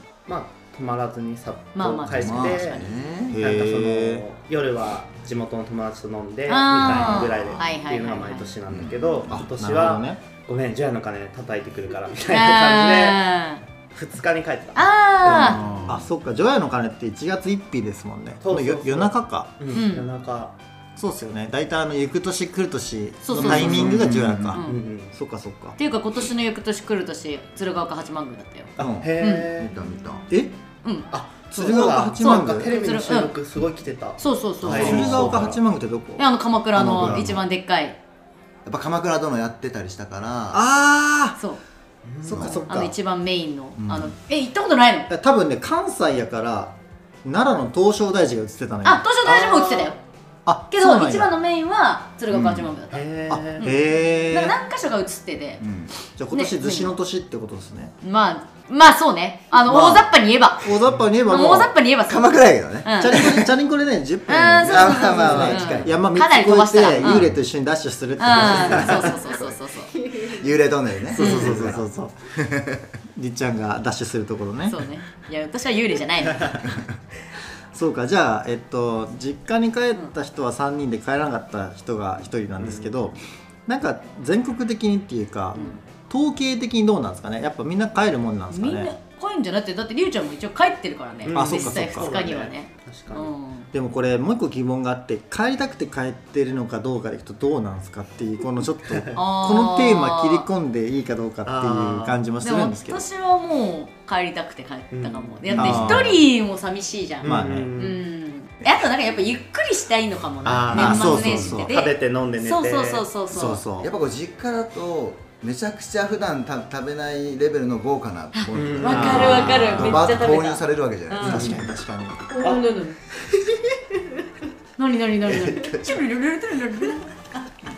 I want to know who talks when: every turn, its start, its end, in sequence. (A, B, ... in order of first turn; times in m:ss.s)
0:00.3-0:13.2 A
0:01.7-0:02.8 B
0:02.1-0:03.4 C
0:03.3-0:04.2 D
0:06.5-0:08.5 B
0:06.7-0:07.7 C
0:08.7-0:09.4 C
0:09.3-0:10.2 D
0:12.3-0:13.6 B
0:13.9-0:15.9 A
0:14.8-0:15.6 B
0:15.4-0:16.1 C
0:15.7-0:19.6 D
0:18.4-0:20.6 A
0:19.7-0:20.1 B
0:21.0-0:24.6 D
0:23.3-0:24.8 B
0:23.3-0:24.0 A
0:23.4-0:24.6 C
0:24.6-0:25.2 A
0:25.1-0:25.8 D
0:25.8-0:29.5 B
0:28.8-0:29.8 A
0:28.8-0:30.3 C
0:30.8-0:33.3 B
0:31.1-0:35.6 A
0:31.5-0:32.7 D
0:34.2-0:34.8 B
0:34.6-0:37.4 D
0:34.8-0:35.4 C
0:36.2-0:38.0 B
0:36.8-0:37.4 C
0:38.6-0:40.6 C
0:40.5-0:41.4 D
0:42.0-0:42.6 A
0:42.2-0:42.9 D
0:42.3-0:42.6 C
0:42.6-0:45.1 B
0:43.8-0:44.1 C
0:45.1-0:49.0 D
0:48.8-0:50.0 B
0:49.2-0:50.0 A
0:50.4-0:51.3 D
0:50.7-0:55.6 B
0:52.3-0:52.7 C
0:52.9-0:53.7 A
0:53.3-0:54.6 D
0:55.6-0:55.9 C
0:56.2-0:57.9 D
0:56.3-0:57.0 B
0:58.0-1:03.2 B
0:59.6-1:00.1 D
1:00.6-1:01.7 D
1:02.0-1:03.5 C
1:03.0-1:09.1 D
1:04.3-1:07.3 B
1:04.6-1:06.0 C
1:05.2-1:05.6 A
1:07.0-1:07.4 C
1:08.2-1:10.3 B
1:08.4-1:09.3 C
1:10.2-1:12.9 C
1:11.1-1:11.6 B
1:11.1-1:12.3 D
1:13.1-1:14.8 D
1:14.7-1:16.7 B
1:17.7-1:28.9 D
1:22.6-1:22.9 A
1:25.5-1:25.8 A
1:28.5-1:33.7 B
1:31.2-1:33.3 A
1:31.3-1:32.2 D
1:33.7-1:43.0 D
1:39.1-1:40.4 B
1:41.4-1:42.3 A
1:42.4-1:53.7 B
1:44.9-1:46.1 A
1:45.5-1:46.2 D
1:47.2-1:48.0 A
1:47.2-1:47.7 D
1:50.4-1:53.1 A
1:50.7-1:51.7 D
1:53.3-1:53.9 D
1:53.8-2:01.7 C
1:58.3-2:01.6 B
1:58.5-1:59.7 A
1:58.9-2:00.1 D
2:01.2-2:02.2 D
2:02.3-2:03.0 B
2:04.8-2:07.1 B
2:05.2-2:06.1 C